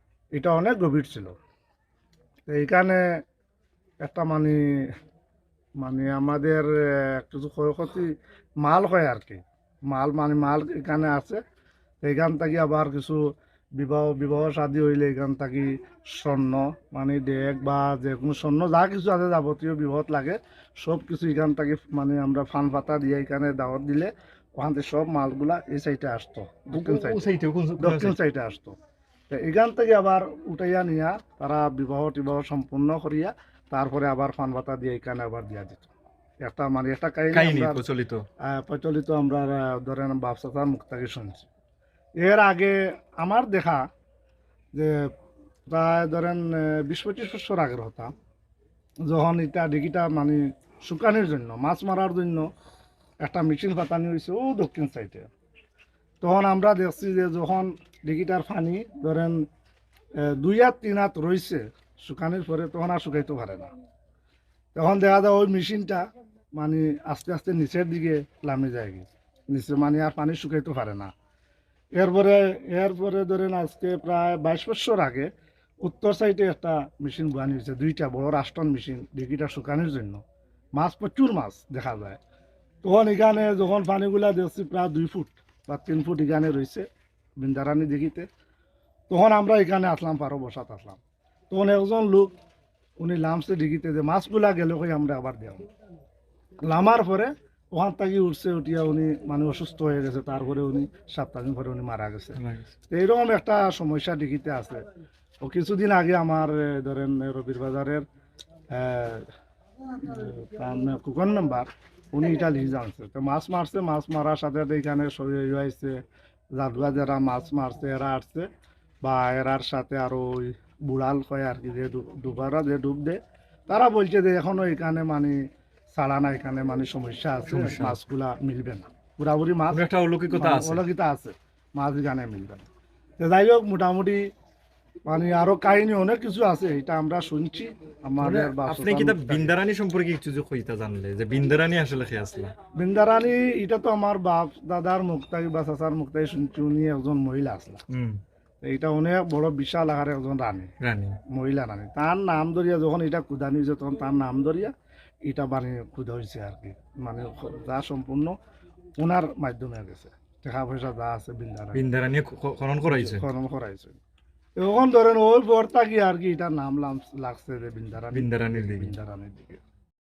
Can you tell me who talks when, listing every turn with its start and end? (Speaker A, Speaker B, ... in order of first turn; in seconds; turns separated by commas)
Speaker A: 0.3-1.3, Speaker A: 2.5-3.0, Speaker A: 4.0-4.6, Speaker A: 5.8-8.1, Speaker A: 8.6-11.4, Speaker A: 12.0-13.2, Speaker A: 13.8-27.2, Speaker B: 26.7-28.1, Speaker A: 27.8-28.8, Speaker A: 29.3-35.9, Speaker A: 36.4-37.8, Speaker B: 37.3-38.2, Speaker A: 38.4-41.5, Speaker A: 42.2-43.8, Speaker A: 44.8-45.1, Speaker A: 45.7-48.1, Speaker A: 49.1-52.5, Speaker A: 53.2-55.3, Speaker A: 56.2-59.5, Speaker A: 60.2-63.7, Speaker A: 64.8-66.0, Speaker A: 66.6-71.1, Speaker A: 72.0-75.3, Speaker A: 75.8-80.2, Speaker A: 80.8-82.2, Speaker A: 82.8-86.9, Speaker A: 87.4-88.3, Speaker A: 89.1-91.0, Speaker A: 91.5-92.3, Speaker A: 93.0-95.6, Speaker A: 96.6-102.4, Speaker B: 102.4-102.7, Speaker A: 102.9-104.8, Speaker A: 105.4-108.0, Speaker A: 108.7-109.3, Speaker A: 110.0-116.0, Speaker A: 116.5-118.5, Speaker A: 119.0-129.8, Speaker B: 127.5-128.0, Speaker B: 129.7-130.8, Speaker A: 130.4-132.7, Speaker A: 133.2-134.2, Speaker A: 135.1-139.5, Speaker B: 138.2-142.5, Speaker A: 142.8-147.8, Speaker B: 147.9-148.2, Speaker A: 148.6-150.7, Speaker B: 150.8-151.2, Speaker A: 151.3-154.7, Speaker A: 155.2-158.3, Speaker A: 159.0-161.8, Speaker B: 161.7-163.2, Speaker A: 162.9-164.0, Speaker A: 164.6-169.6, Speaker B: 168.1-168.9